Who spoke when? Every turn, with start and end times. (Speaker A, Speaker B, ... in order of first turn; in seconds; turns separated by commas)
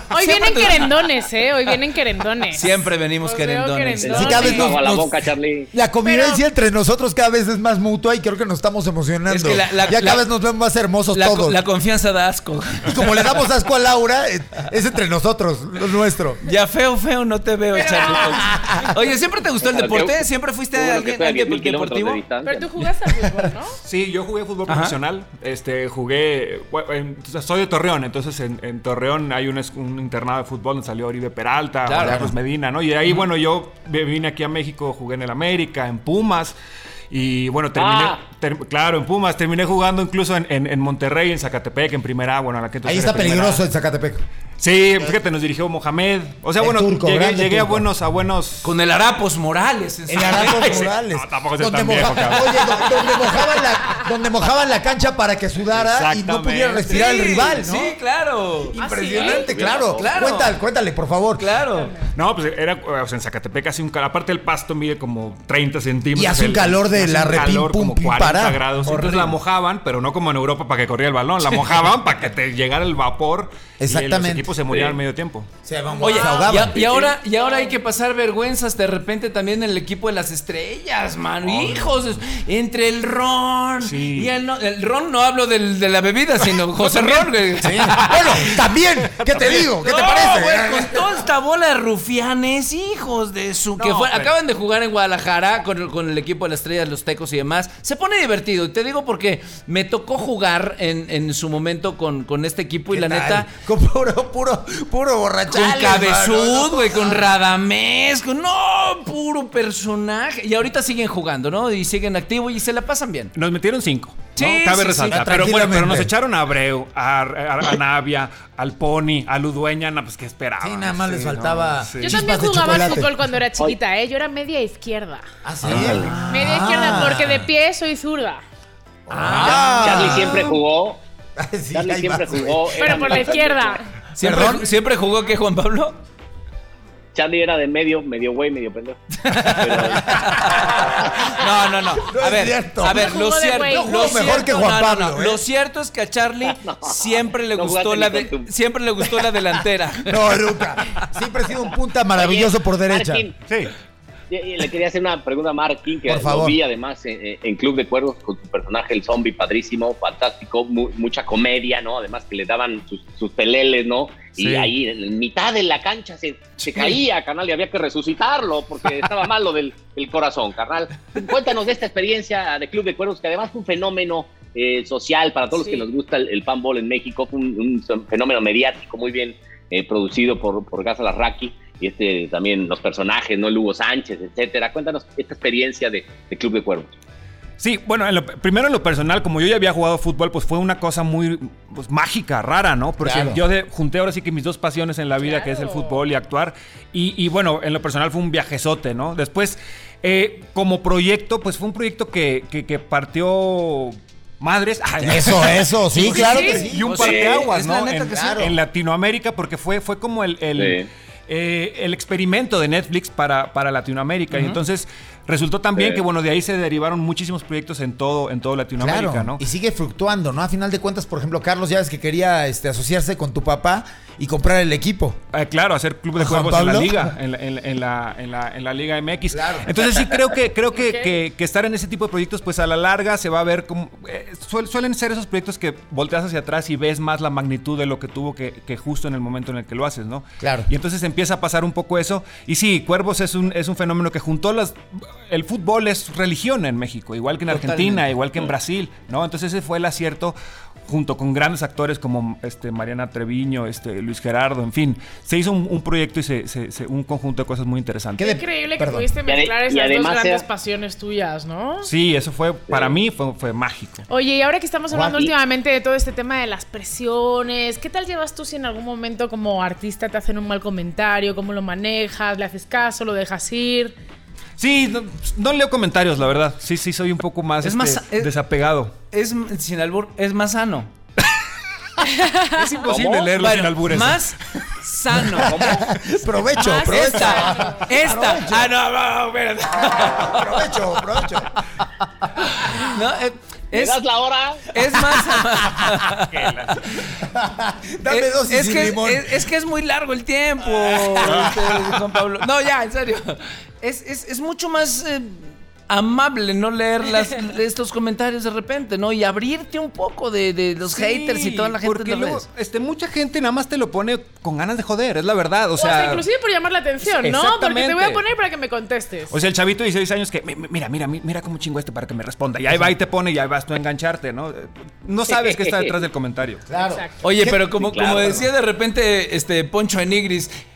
Speaker A: 0.1-2.7, Speaker B: 0.1-0.9, Speaker B: 2.5-4.6, Speaker A: 3.2-4.8, Speaker C: 4.0-5.7, Speaker D: 4.1-5.1, Speaker D: 5.7-11.6, Speaker A: 6.0-6.4, Speaker B: 9.3-10.2, Speaker B: 11.1-13.4, Speaker D: 12.8-16.4, Speaker B: 16.4-22.2, Speaker A: 17.7-18.5, Speaker D: 18.2-18.9, Speaker C: 19.6-20.2, Speaker C: 20.7-22.6, Speaker A: 22.4-23.8, Speaker E: 23.8-36.6, Speaker B: 24.7-24.9, Speaker B: 31.9-32.2, Speaker D: 32.0-32.3, Speaker E: 37.1-43.6, Speaker C: 37.8-38.2, Speaker D: 42.8-44.2, Speaker E: 44.6-48.7, Speaker D: 46.6-47.9, Speaker B: 48.6-50.9, Speaker D: 50.1-58.0, Speaker E: 50.2-53.1, Speaker E: 55.7-57.4, Speaker B: 56.9-60.5, Speaker D: 58.8-61.5, Speaker A: 58.8-59.5, Speaker C: 59.4-60.2, Speaker B: 61.4-61.9, Speaker E: 62.1-75.5, Speaker D: 66.1-68.8, Speaker B: 68.8-69.4, Speaker D: 73.8-74.6, Speaker D: 75.6-76.8, Speaker B: 76.0-88.6, Speaker A: 76.0-76.5, Speaker C: 76.8-77.1, Speaker A: 77.3-77.8, Speaker E: 81.4-81.9, Speaker E: 83.8-84.3, Speaker E: 86.8-87.3, Speaker D: 87.6-91.2, Speaker E: 89.0-89.6, Speaker B: 89.4-103.5, Speaker E: 93.8-94.3, Speaker D: 102.9-107.3, Speaker B: 105.5-113.3, Speaker E: 113.3-122.2, Speaker B: 114.3-115.3, Speaker D: 115.1-116.1, Speaker D: 120.6-123.1, Speaker A: 122.0-125.2, Speaker D: 125.4-127.5, Speaker C: 125.7-126.1, Speaker B: 125.7-126.7, Speaker A: 126.3-128.4, Speaker D: 129.1-130.6, Speaker B: 129.1-130.4, Speaker C: 129.3-131.0, Speaker D: 131.4-133.2, Speaker C: 131.7-133.8, Speaker A: 132.8-133.8, Speaker B: 134.2-135.9, Speaker D: 134.2-134.7, Speaker C: 137.1-141.0, Speaker B: 139.2-151.0, Speaker D: 140.1-141.2, Speaker D: 142.0-145.4, Speaker A: 142.8-144.4, Speaker C: 146.5-148.5, Speaker D: 150.1-153.3, Speaker C: 152.2-153.3, Speaker E: 153.4-153.7, Speaker C: 154.3-186.9, Speaker D: 156.1-156.6, Speaker E: 164.4-164.7, Speaker A: 175.5-175.8, Speaker E: 187.6-219.4, Speaker D: 193.0-193.4, Speaker A: 195.2-196.0, Speaker D: 205.0-207.1, Speaker B: 205.9-208.5, Speaker A: 206.1-206.6, Speaker C: 207.0-207.3, Speaker D: 208.1-208.5, Speaker C: 210.6-210.9, Speaker B: 214.3-214.6, Speaker D: 218.8-225.2, Speaker E: 225.3-258.4, Speaker D: 226.2-227.1, Speaker D: 229.3-229.7, Speaker A: 230.7-231.2, Speaker D: 240.4-240.7, Speaker B: 247.5-248.1, Speaker D: 258.2-259.1, Speaker A: 258.2-261.9, Speaker C: 259.2-260.4, Speaker E: 261.8-264.0, Speaker A: 264.1-273.9, Speaker D: 264.9-265.2, Speaker E: 274.6-278.9, Speaker B: 277.6-278.3, Speaker B: 279.1-280.9, Speaker E: 282.5-284.3, Speaker C: 282.9-283.3, Speaker B: 283.4-285.7, Speaker D: 285.1-288.7, Speaker C: 285.4-285.9, Speaker A: 286.6-287.8, Speaker B: 286.8-290.7, Speaker D: 290.2-291.5, Speaker B: 292.6-294.0, Speaker C: 293.7-294.7, Speaker B: 294.7-296.5, Speaker E: 296.3-296.9, Speaker D: 297.2-299.4, Speaker B: 298.1-312.4, Speaker D: 300.9-301.5, Speaker E: 301.2-301.9, Speaker E: 310.9-316.2, Speaker A: 315.8-319.4, Speaker E: 317.0-318.2, Speaker E: 319.3-326.6, Speaker C: 325.3-326.0, Speaker D: 326.7-327.6, Speaker A: 326.8-327.1, Speaker B: 327.2-330.5, Speaker C: 327.4-328.5